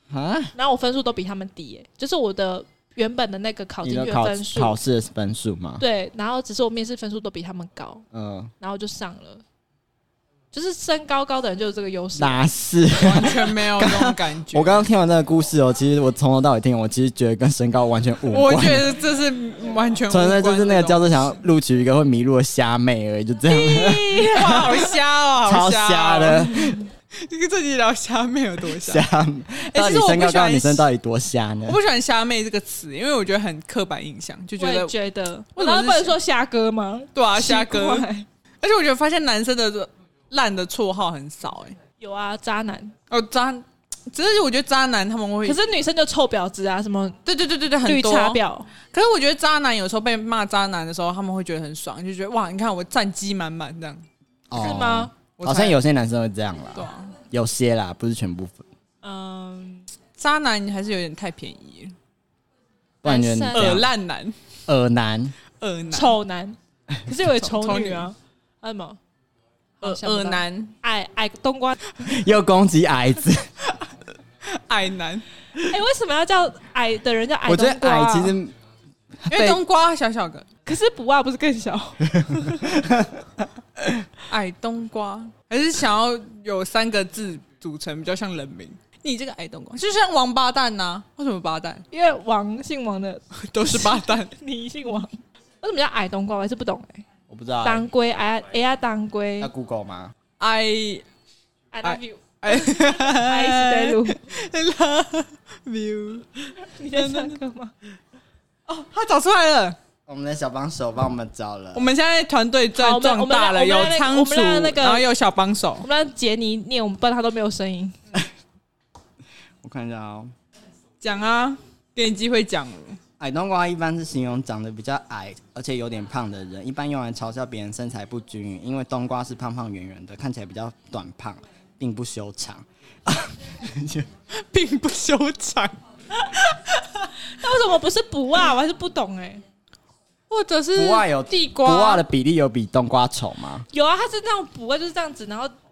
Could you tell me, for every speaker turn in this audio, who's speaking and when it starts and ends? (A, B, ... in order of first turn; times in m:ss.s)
0:00.1-0:00.5 A
0:00.5-0:04.8 B
0:03.8-0:05.8 A
0:05.8-0:08.0 B
0:08.1-0:08.5 A
0:08.6-0:09.4 B
0:10.5-0:12.5 B
0:12.2-0:18.9 A
0:12.9-0:14.8 C
0:18.3-0:21.4 C
0:20.1-0:24.7 A
0:23.5-0:24.9 B
0:24.2-0:29.0 C
0:25.4-0:26.8 A
0:28.8-0:31.8 A
0:29.6-0:30.9 C
0:31.6-0:34.9 C
0:34.6-0:38.3 B
0:35.6-0:36.2 C
0:37.1-0:38.1 C
0:38.6-0:41.8 C
0:42.0-0:42.9 B
0:43.1-0:45.6 C
0:45.4-0:47.2 B
0:47.2-0:48.4 C
0:47.8-0:48.7 B
0:48.9-0:54.0 C
0:54.5-0:58.6 A
0:54.5-0:55.1 B
0:55.4-0:55.8 C
0:56.7-0:57.1 C
0:59.0-0:59.8 B
1:00.2-1:01.9 C
1:03.0-1:03.8 A
1:03.0-1:03.8 B
1:03.5-1:04.4 C
1:04.7-1:05.3 A
1:05.6-1:06.2 C
1:05.9-1:09.0 B
1:07.3-1:08.1 C
1:09.8-1:12.0 B
1:09.8-1:10.7 C
1:12.0-1:13.5 A
1:14.4-1:15.2 C
1:15.6-1:18.4 B
1:17.4-1:18.5 A
1:19.2-1:19.6 A
1:19.3-1:20.4 C
1:20.6-1:22.8 B
1:22.2-1:23.2 A
1:23.8-1:24.0 A
1:24.3-1:31.8 C
1:31.9-1:37.0 B
1:33.4-1:34.3 C
1:37.3-1:37.9 A
1:37.6-1:39.5 B
1:39.4-1:40.1 A
1:40.4-1:41.0 C
1:41.7-1:44.2 B
1:41.8-1:47.4 C
1:46.7-1:47.7 B
1:48.7-1:49.8 C
1:50.1-1:51.9 A
1:51.7-1:55.8 C
1:52.7-1:55.0 B
1:55.8-1:58.0 B
1:59.6-2:00.3 A
2:01.0-2:03.0 C
2:03.2-2:14.1 A
2:14.3-2:15.7 C
2:16.5-2:17.1 C
2:17.3-2:19.4 B
2:20.3-2:22.0 C
2:20.7-2:23.6 A
2:23.7-2:25.5 B